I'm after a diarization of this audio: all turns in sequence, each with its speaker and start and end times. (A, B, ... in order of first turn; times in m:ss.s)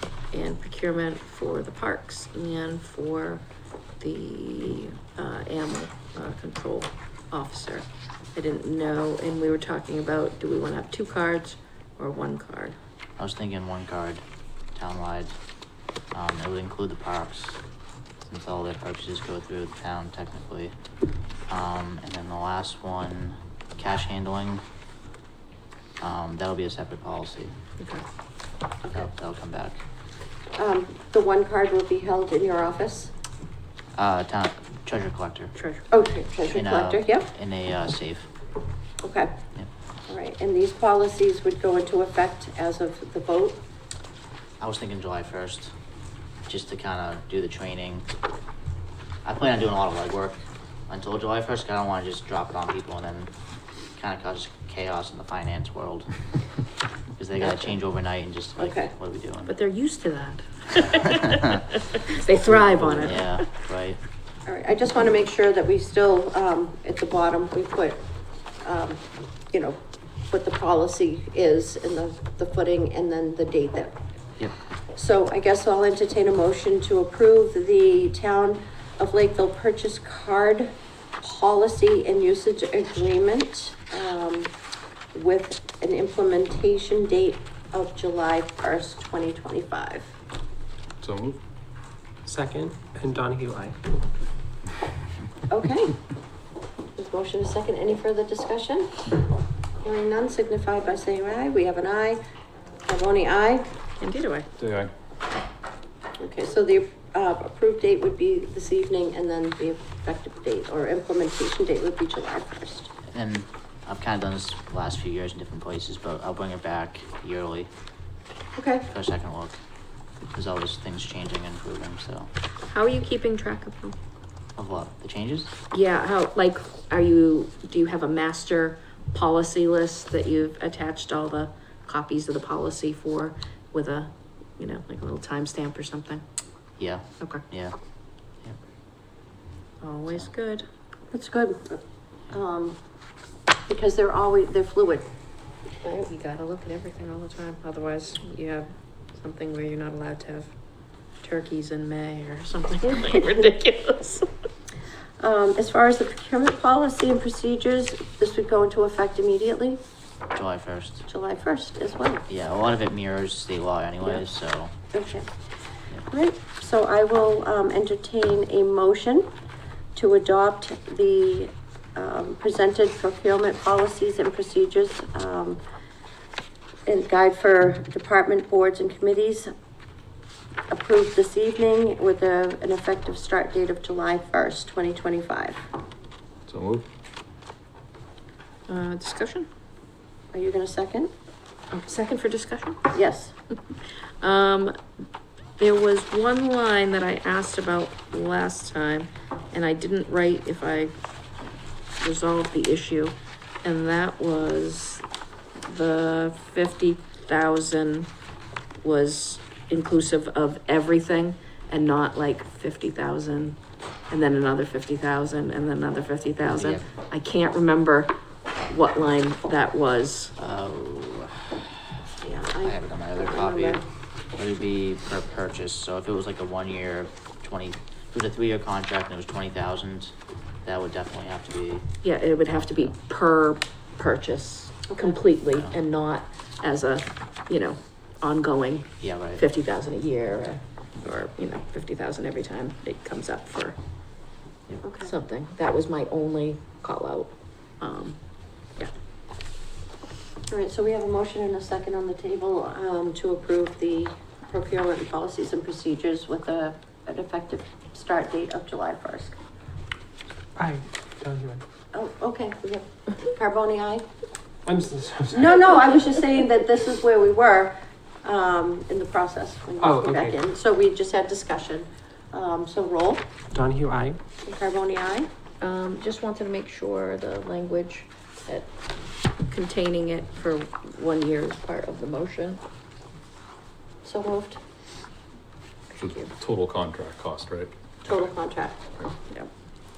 0:00.3-0:03.4 A
0:04.0-0:12.8 A
0:13.2-0:14.2 B
0:14.7-0:15.3 B
0:16.1-0:17.6 B
0:18.2-0:20.7 B
0:21.5-0:24.6 B
0:26.0-0:27.5 B
0:28.9-0:29.8 B
0:30.6-0:33.1 C
0:34.0-0:35.5 B
0:35.5-0:35.8 A
0:35.9-0:37.3 C
0:36.5-0:38.3 B
0:39.0-0:39.3 C
0:40.1-0:43.6 C
0:44.6-0:45.7 B
0:46.5-0:48.1 B
0:49.2-0:53.3 B
0:54.0-0:56.2 B
0:57.2-0:59.5 B
0:58.6-0:58.9 C
0:59.5-1:03.4 A
1:02.9-1:04.0 B
1:04.5-1:08.0 C
1:08.6-1:09.0 C
1:09.5-1:09.8 C
1:10.3-1:13.9 C
1:14.9-1:24.5 C
1:25.1-1:30.1 C
1:31.0-1:31.4 D
1:32.2-1:33.8 E
1:35.5-1:36.0 C
1:37.0-1:39.1 C
1:39.8-1:42.2 C
1:42.8-1:43.7 C
1:44.0-1:44.5 A
1:44.6-1:44.9 D
1:46.2-1:52.9 C
1:53.1-1:57.7 B
1:58.5-1:58.9 C
1:58.9-1:59.6 B
2:00.3-2:02.3 B
2:02.7-2:04.0 A
2:04.6-2:05.5 B
2:05.7-2:16.2 A
2:16.8-2:17.7 B
2:19.8-2:20.6 A
2:21.1-2:21.8 C
2:22.3-2:22.8 C
2:23.7-2:25.1 C
2:25.8-2:30.5 A
2:31.2-2:34.3 A
2:35.2-2:39.8 C
2:40.3-2:41.1 B
2:41.1-2:42.2 C
2:42.3-2:44.7 B
2:44.9-2:45.3 C
2:46.1-2:49.3 C
2:49.9-2:55.6 C
2:56.8-2:59.5 C
3:00.7-3:05.6 C
3:06.5-3:06.8 D
3:08.7-3:09.5 A
3:10.3-3:11.1 C
3:11.7-3:12.8 A
3:12.9-3:13.3 C
3:14.2-3:14.7 A
3:15.6-3:21.0 A
3:22.0-3:25.0 A
3:25.6-3:28.1 A
3:28.8-3:33.6 A
3:34.1-3:38.1 A
3:36.4-3:36.9 B
3:38.7-3:40.3 A
3:40.4-3:41.4 B
3:42.2-3:43.8 C
3:42.6-3:43.8 B
3:44.4-3:50.1 B
3:50.6-3:51.9 B
3:52.0-4:03.8 A
3:52.4-3:52.9 B
3:54.9-3:55.2 C
3:55.5-3:55.7 B
3:59.0-3:59.5 B
4:04.7-4:05.1 C
4:05.0-4:08.2 A
4:10.5-4:19.4 C
4:20.6-4:21.6 E
4:21.9-4:24.0 C
4:24.6-4:26.0 E
4:25.3-4:33.3 C
4:29.8-4:30.4 E
4:33.5-4:34.2 E
4:34.4-4:35.3 C
4:35.6-4:38.7 A
4:39.5-4:42.6 A
4:44.0-4:44.6 C
4:45.9-4:48.3 D
4:46.0-4:46.3 A
4:48.0-4:48.9 C